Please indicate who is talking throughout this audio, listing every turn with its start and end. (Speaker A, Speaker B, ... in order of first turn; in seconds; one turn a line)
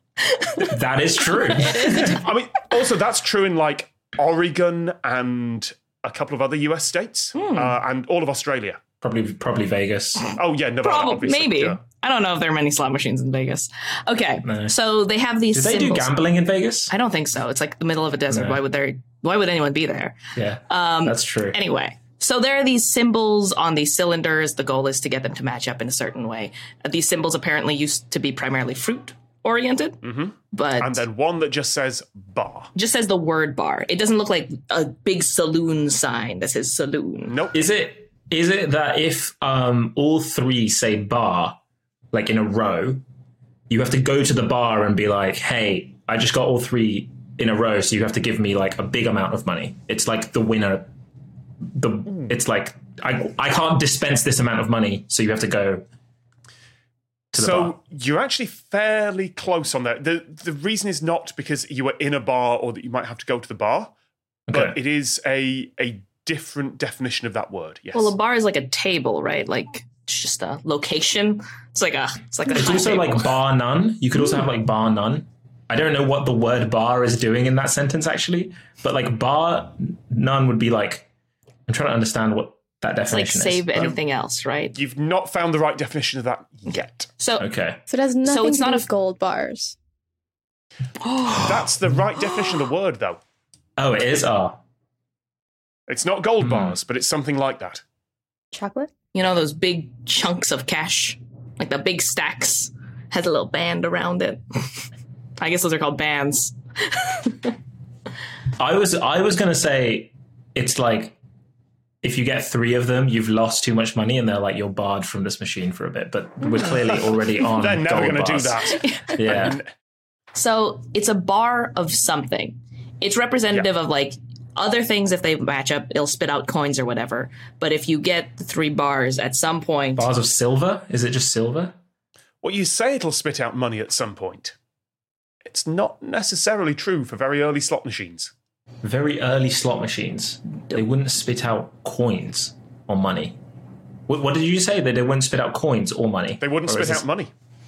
Speaker A: 0.2-0.7
Speaker B: 0.6-2.2
Speaker A: 1.4-2.2
Speaker C: 1.6-2.2
Speaker D: 2.1-8.8
Speaker A: 7.3-7.7
Speaker B: 9.0-10.3
Speaker D: 10.3-11.8
Speaker A: 10.8-16.1
Speaker B: 14.4-14.8
Speaker B: 15.5-16.9
Speaker A: 16.9-30.0
Speaker B: 18.3-18.6
Speaker B: 20.3-21.6
Speaker D: 30.0-32.7
Speaker A: 30.5-31.0
Speaker A: 32.7-37.4
Speaker D: 37.3-37.6
Speaker B: 37.5-41.6
Speaker B: 42.1-43.0
Speaker B: 43.7-50.9
Speaker B: 51.6-55.9
Speaker B: 57.3-57.7
Speaker D: 57.3-63.9
Speaker B: 64.5-64.8
Speaker D: 64.5-68.1
Speaker A: 67.9-73.3
Speaker B: 72.5-81.0
Speaker B: 81.7-83.9
Speaker A: 83.1-84.8
Speaker D: 84.7-87.1
Speaker A: 87.2-87.5
Speaker B: 87.4-87.8
Speaker C: 87.9-89.8
Speaker A: 88.2-88.9
Speaker A: 91.0-91.7
Speaker D: 91.3-93.2
Speaker B: 93.8-94.6
Speaker D: 95.9-97.8
Speaker B: 96.4-96.8
Speaker C: 98.5-98.9
Speaker A: 99.1-107.5
Speaker B: 108.6-111.2
Speaker B: 112.0-119.6
Speaker D: 116.8-119.7
Speaker A: 118.7-119.5
Speaker A: 120.3-130.1
Speaker B: 129.9-131.7
Speaker D: 132.4-134.5
Speaker D: 135.4-138.3
Speaker B: 138.8-143.4
Speaker B: 144.1-147.1
Speaker D: 146.4-147.3